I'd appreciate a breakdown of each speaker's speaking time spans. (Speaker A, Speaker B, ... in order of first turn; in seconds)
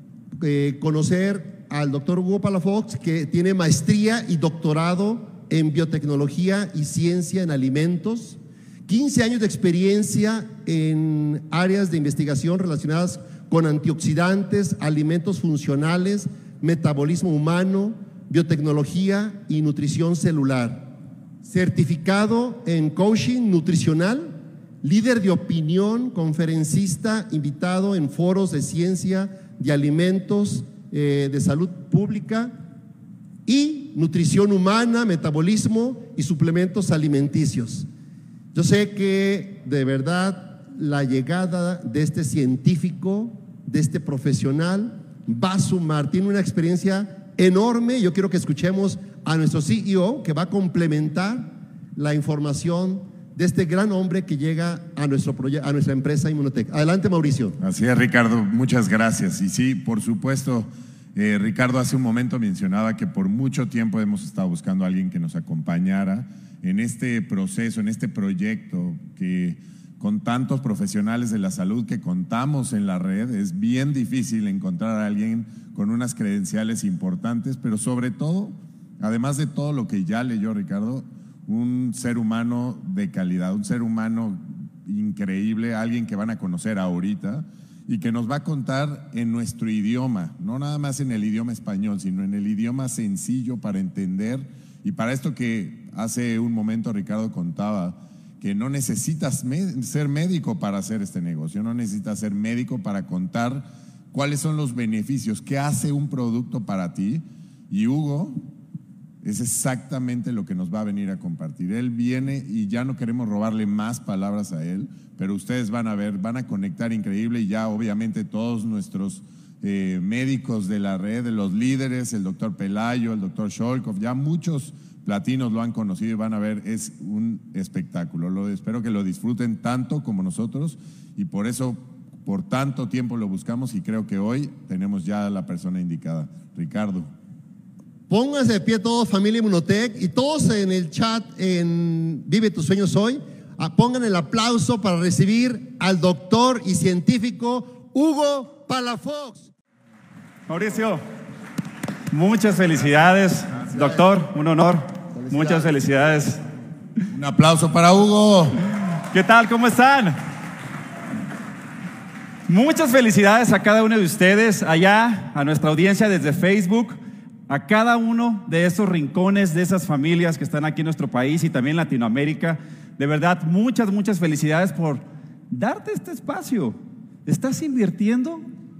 Speaker A: 0.4-20.9, 21.4-32.5, 33.5-37.9, 38.5-57.6, 138.1-149.5, 155.2-155.7
Speaker B: 57.6-108.4, 109.2-137.1, 157.1-158.6
Speaker C: 150.5-151.0, 152.1-156.4, 159.1-160.2, 162.5-167.0, 167.5-178.4